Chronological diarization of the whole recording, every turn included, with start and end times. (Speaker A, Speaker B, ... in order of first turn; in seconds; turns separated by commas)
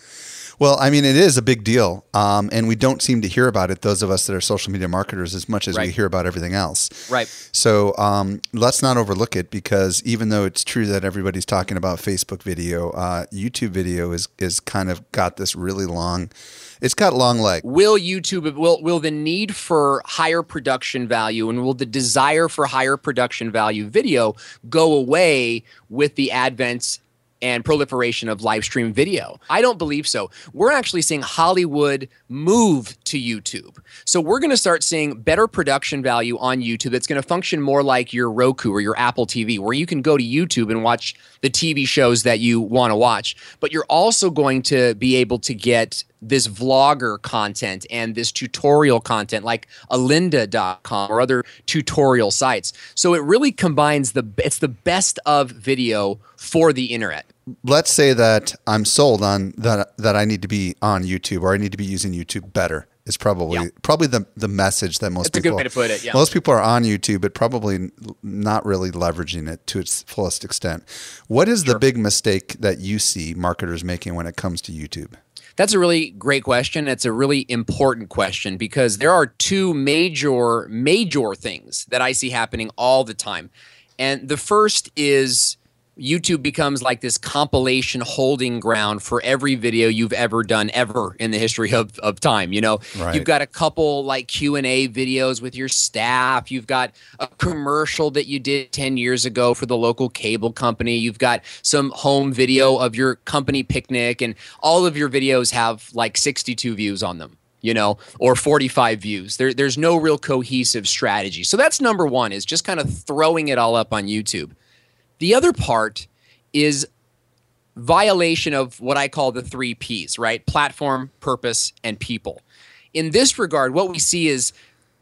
Speaker A: 0.6-17.6, Speaker B: 17.6-57.3, Speaker A: 57.6-75.2, Speaker B: 65.2-66.2, Speaker B: 75.6-114.5, Speaker A: 92.9-93.2, Speaker B: 115.2-116.9, Speaker B: 117.8-122.4, Speaker B: 122.9-124.5